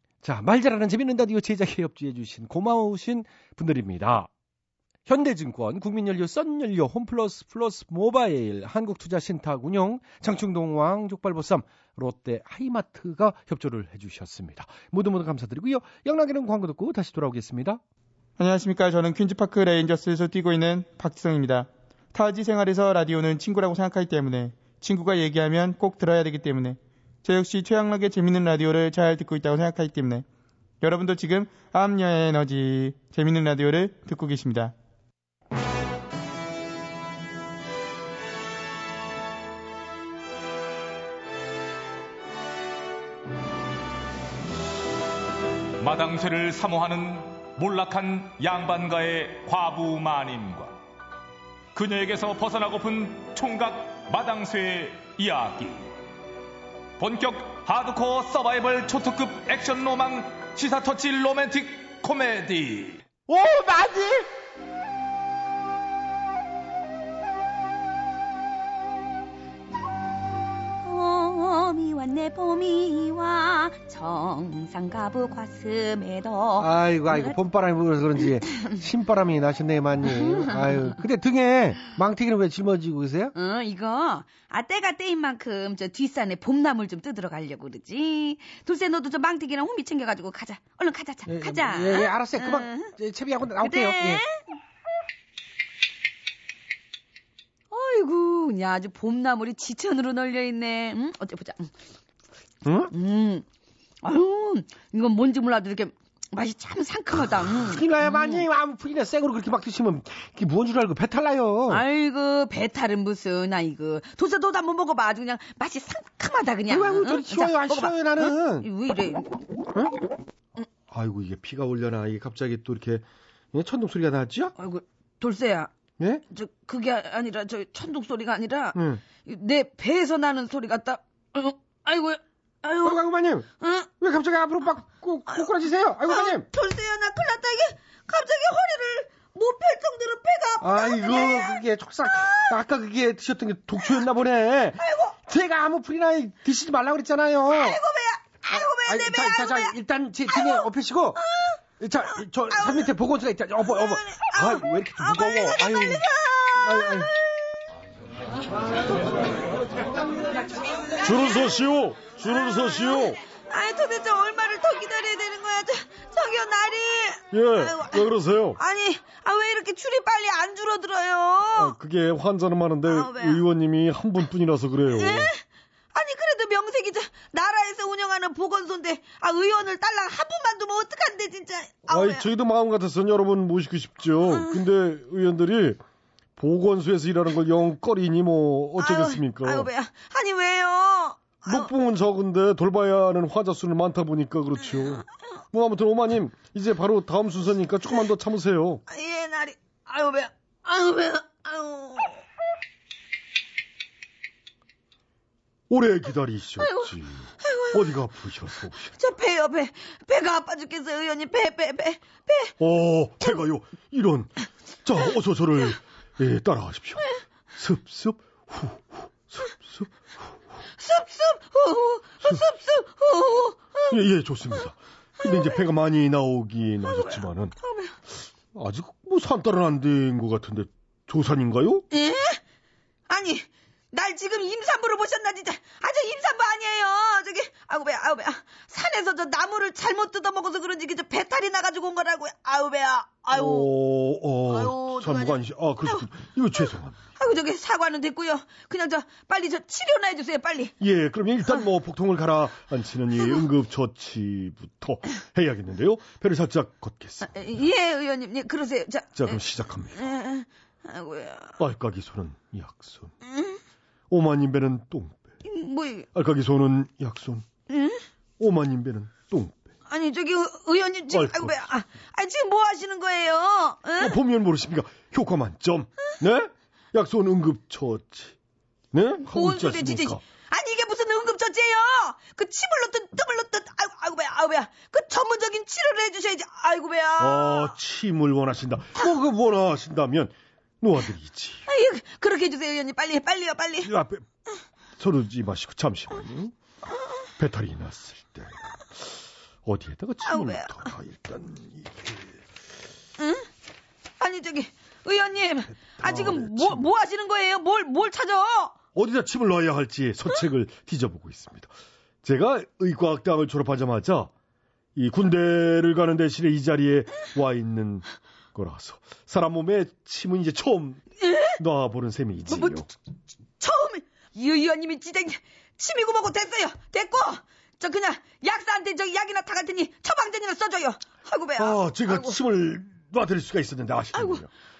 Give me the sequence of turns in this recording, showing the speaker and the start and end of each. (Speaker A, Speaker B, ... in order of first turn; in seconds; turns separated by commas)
Speaker A: 0.2-4.3, Speaker A: 5.0-17.8, Speaker B: 18.4-30.2, Speaker B: 30.8-34.7, Speaker C: 45.8-50.7, Speaker C: 51.7-55.9, Speaker C: 57.0-63.0, Speaker D: 70.8-77.4, Speaker A: 76.6-83.3, Speaker D: 80.2-80.8, Speaker D: 83.3-92.9, Speaker A: 91.2-94.2, Speaker D: 93.6-94.4, Speaker D: 97.7-101.7, Speaker A: 102.6-102.9, Speaker D: 102.9-103.4, Speaker D: 104.0-108.4, Speaker A: 107.6-111.8, Speaker D: 111.7-119.4, Speaker A: 116.7-118.7, Speaker A: 120.9-124.5, Speaker D: 124.6-125.7, Speaker D: 126.3-133.0, Speaker A: 128.7-129.0, Speaker A: 132.8-133.5, Speaker D: 133.6-133.9, Speaker A: 134.0-136.5, Speaker D: 135.3-142.6, Speaker A: 140.6-147.8, Speaker D: 143.8-144.1, Speaker D: 144.8-145.2, Speaker D: 147.5-149.8, Speaker A: 148.5-151.2, Speaker D: 150.3-151.6, Speaker A: 151.8-156.0, Speaker D: 152.1-152.9, Speaker D: 153.6-157.1, Speaker A: 156.6-157.1, Speaker E: 161.0-163.2, Speaker D: 161.0-161.5, Speaker D: 162.2-168.0, Speaker E: 167.3-168.6, Speaker D: 168.6-171.8, Speaker E: 171.5-175.3, Speaker D: 172.8-173.4, Speaker D: 174.9-175.4, Speaker D: 175.9-182.3, Speaker E: 181.9-185.8, Speaker D: 184.3-184.6, Speaker E: 186.4-189.7, Speaker D: 188.8-191.7, Speaker E: 191.4-198.8, Speaker D: 194.7-195.0, Speaker D: 198.9-202.2, Speaker E: 205.7-208.9, Speaker D: 206.6-207.9, Speaker D: 209.0-212.5, Speaker E: 212.6-214.3, Speaker E: 214.8-217.0, Speaker E: 217.6-219.8, Speaker D: 220.8-223.9, Speaker E: 223.9-227.5, Speaker D: 225.2-225.6, Speaker D: 226.8-227.9, Speaker E: 228.5-231.8, Speaker D: 231.9-232.4, Speaker D: 233.1-243.7, Speaker E: 243.3-247.0, Speaker D: 244.4-246.0, Speaker D: 247.2-250.7, Speaker E: 250.8-257.3, Speaker D: 257.2-261.6, Speaker E: 259.1-260.0, Speaker E: 261.6-263.1, Speaker D: 263.2-263.6, Speaker E: 264.1-265.2, Speaker D: 265.4-266.1, Speaker E: 266.1-267.5, Speaker D: 267.7-268.0, Speaker E: 268.4-269.5, Speaker D: 269.9-274.2, Speaker E: 271.1-271.6, Speaker E: 274.0-278.3, Speaker E: 278.9-280.2, Speaker D: 279.2-287.7, Speaker E: 287.2-291.6, Speaker D: 291.7-293.9, Speaker E: 293.8-294.2, Speaker E: 295.0-296.5, Speaker E: 297.4-299.1, Speaker E: 299.6-302.2, Speaker D: 300.2-300.9, Speaker D: 303.2-303.5, Speaker D: 304.2-308.8, Speaker E: 306.0-306.8, Speaker E: 308.9-311.7, Speaker E: 312.2-314.3, Speaker E: 314.9-321.0, Speaker D: 321.2-321.6, Speaker E: 321.6-322.9, Speaker D: 322.5-322.9, Speaker D: 323.6-332.4, Speaker E: 331.6-334.5, Speaker D: 334.1-334.4